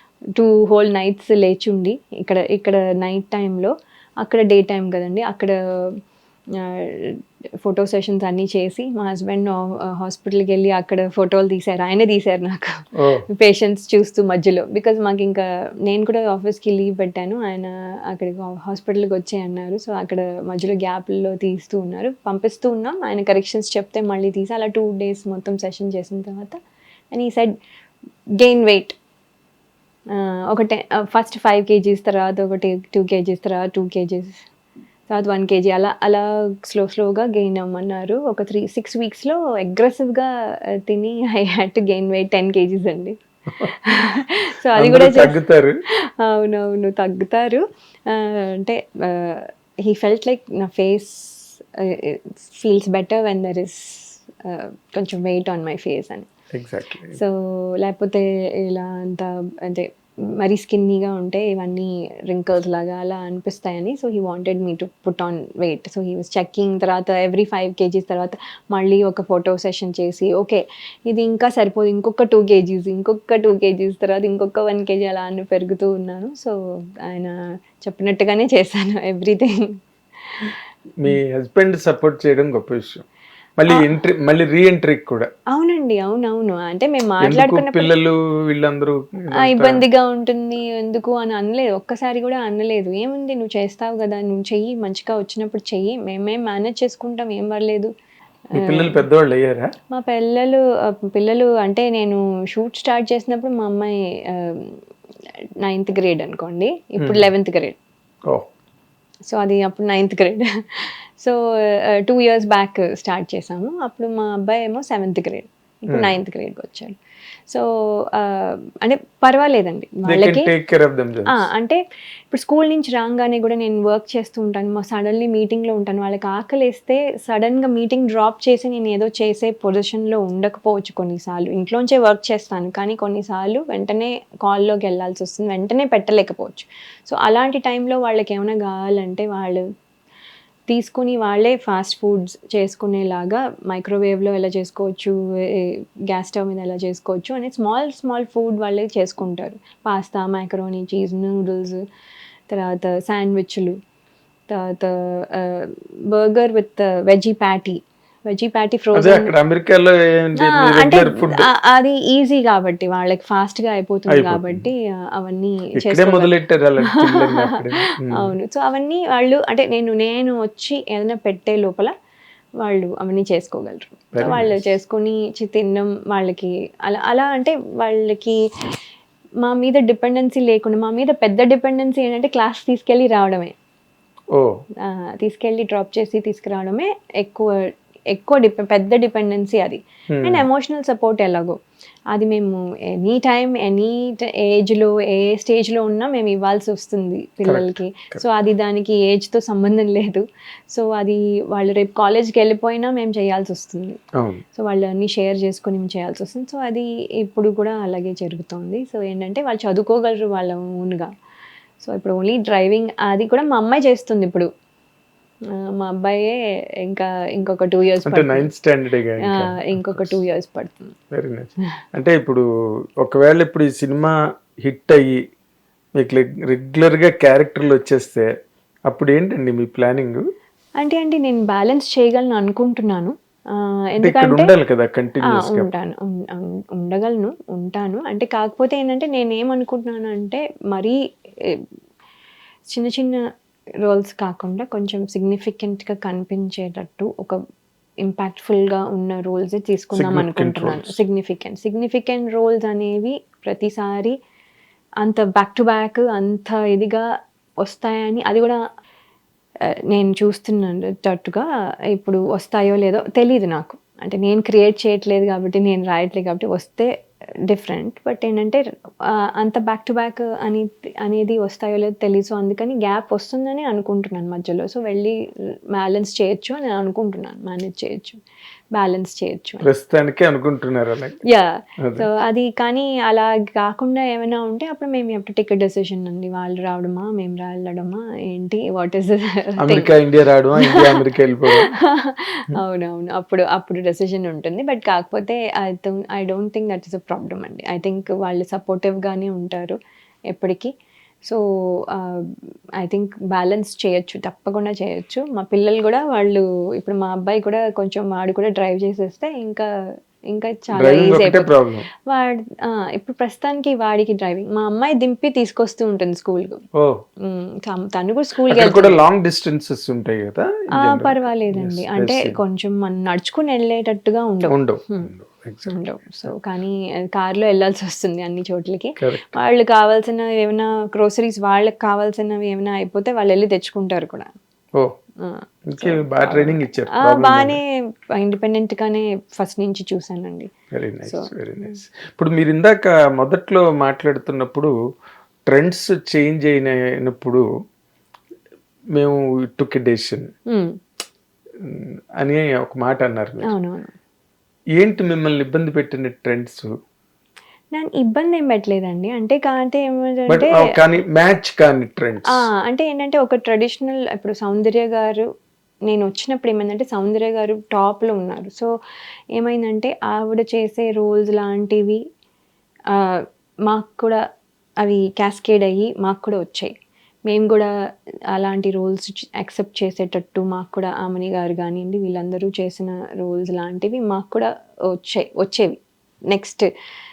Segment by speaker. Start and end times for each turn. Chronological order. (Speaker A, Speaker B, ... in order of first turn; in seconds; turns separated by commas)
Speaker A: 0.3-5.6, Speaker A: 6.6-26.6, Speaker A: 27.1-27.5, Speaker A: 28.4-29.0, Speaker A: 30.1-34.4, Speaker A: 35.1-40.3, Speaker A: 40.8-45.4, Speaker B: 44.8-45.8, Speaker A: 46.2-56.3, Speaker B: 56.5-57.2, Speaker A: 57.1-59.9, Speaker A: 60.4-79.6, Speaker B: 81.0-83.0, Speaker B: 83.6-85.3, Speaker A: 85.5-87.9, Speaker B: 87.2-89.8, Speaker A: 89.4-97.9, Speaker B: 98.6-99.7, Speaker A: 98.6-99.0, Speaker A: 99.9-104.8, Speaker A: 105.6-107.8, Speaker B: 107.0-107.3, Speaker A: 109.3-111.4, Speaker A: 112.0-117.0, Speaker A: 117.5-120.5, Speaker B: 120.1-121.4, Speaker A: 121.3-139.6, Speaker A: 140.7-151.8, Speaker A: 152.5-153.8, Speaker A: 154.5-159.3, Speaker B: 158.9-161.4, Speaker A: 160.4-166.3, Speaker B: 164.1-164.7, Speaker B: 165.8-168.3, Speaker A: 168.2-171.9, Speaker A: 172.6-178.4, Speaker B: 174.2-174.6, Speaker A: 179.4-183.5, Speaker A: 184.8-191.6, Speaker B: 190.2-190.4, Speaker A: 192.1-204.0, Speaker B: 197.4-198.2, Speaker A: 204.6-211.1, Speaker A: 211.8-214.5, Speaker A: 215.6-218.5, Speaker B: 218.1-220.0, Speaker A: 219.3-220.9, Speaker B: 221.1-222.4, Speaker B: 223.0-225.2, Speaker B: 226.0-228.3, Speaker B: 228.9-230.2, Speaker A: 230.8-234.5, Speaker B: 234.0-235.7, Speaker A: 235.3-241.6, Speaker A: 242.7-243.2, Speaker A: 243.8-247.4, Speaker A: 248.0-254.2, Speaker B: 249.9-250.9, Speaker A: 255.0-257.1, Speaker A: 257.6-258.6, Speaker A: 259.9-266.9, Speaker A: 267.5-275.2, Speaker A: 275.7-278.2, Speaker A: 278.7-279.7, Speaker B: 279.6-281.2, Speaker A: 281.3-289.9, Speaker B: 289.6-291.7, Speaker A: 290.6-291.0, Speaker A: 291.6-299.8, Speaker A: 300.3-300.7, Speaker A: 301.2-309.7, Speaker A: 310.3-311.5, Speaker B: 310.8-311.8, Speaker A: 312.1-316.6, Speaker A: 317.2-319.0, Speaker B: 318.5-322.3, Speaker A: 320.8-325.1, Speaker B: 324.5-325.7, Speaker A: 325.7-334.3, Speaker A: 335.2-340.5, Speaker B: 335.7-337.6, Speaker B: 340.7-344.7, Speaker A: 341.1-341.7, Speaker B: 345.5-347.4, Speaker B: 349.0-350.3, Speaker A: 350.5-350.8, Speaker B: 352.2-353.5, Speaker A: 353.4-353.9, Speaker B: 354.8-356.7, Speaker A: 357.7-360.6, Speaker B: 360.3-362.4, Speaker A: 362.4-365.3, Speaker A: 365.9-368.7, Speaker A: 369.4-372.0, Speaker A: 373.0-374.2, Speaker A: 374.8-376.7, Speaker A: 377.3-377.7, Speaker A: 378.3-385.8, Speaker A: 386.3-386.7